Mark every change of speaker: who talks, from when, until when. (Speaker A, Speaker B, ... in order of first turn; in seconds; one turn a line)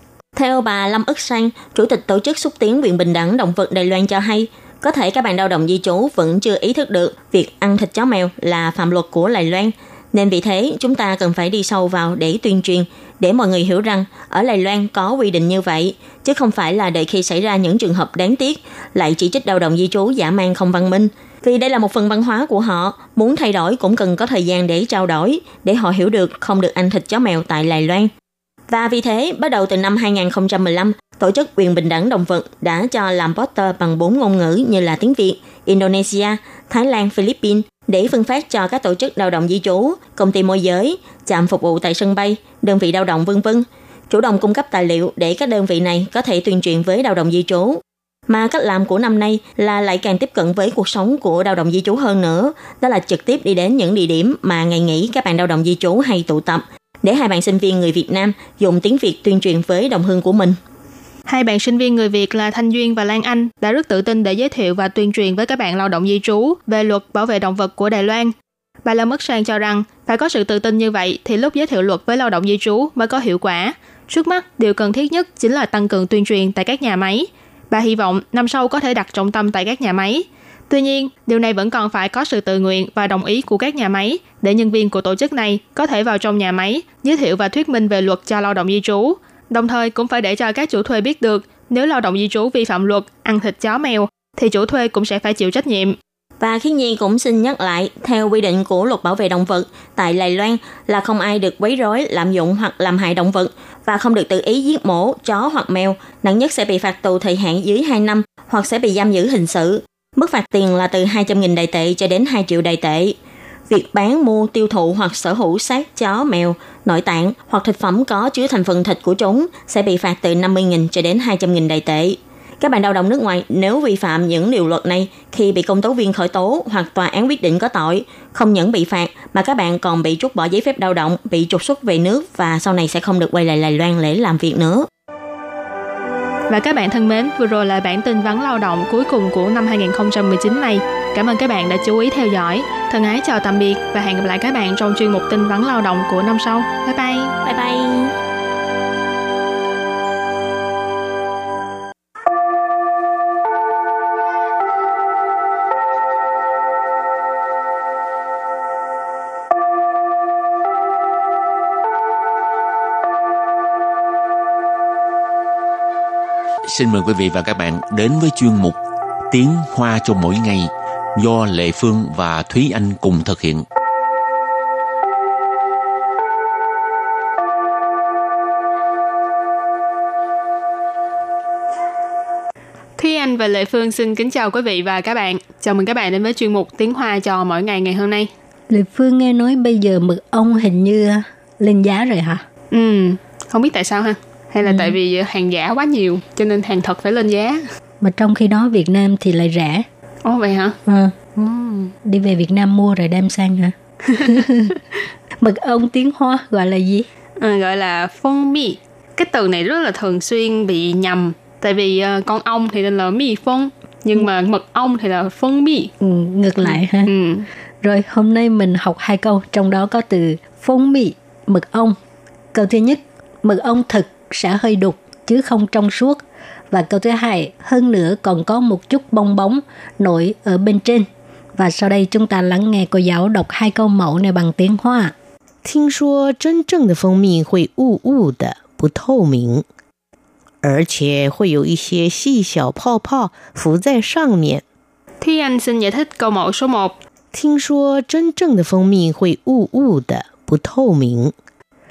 Speaker A: 0.4-28.1
Speaker A: 28.7-60.6
Speaker B: 61.3-96.0
Speaker A: 96.4-113.2
Speaker A: 113.7-134.9
Speaker B: 136.5-147.3
Speaker A: 147.4-148.2
Speaker C: 166.7-168.8
Speaker C: 169.3-173.7
Speaker B: 183.0-188.3
Speaker D: 188.7-192.4
Speaker B: 192.7-197.7
Speaker D: 194.7-194.9
Speaker D: 198.0-199.9
Speaker B: 200.2-200.8
Speaker D: 200.9-201.2
Speaker B: 201.4-201.9
Speaker D: 202.0-204.7
Speaker D: 205.4-207.1
Speaker B: 207.4-215.9
Speaker D: 216.0-217.1
Speaker B: 216.7-217.5
Speaker D: 217.8-222.0
Speaker D: 222.5-235.2
Speaker E: 235.6-239.7
Speaker E: 240.6-244.6
Speaker B: 245.2-246.9
Speaker E: 247.3-251.3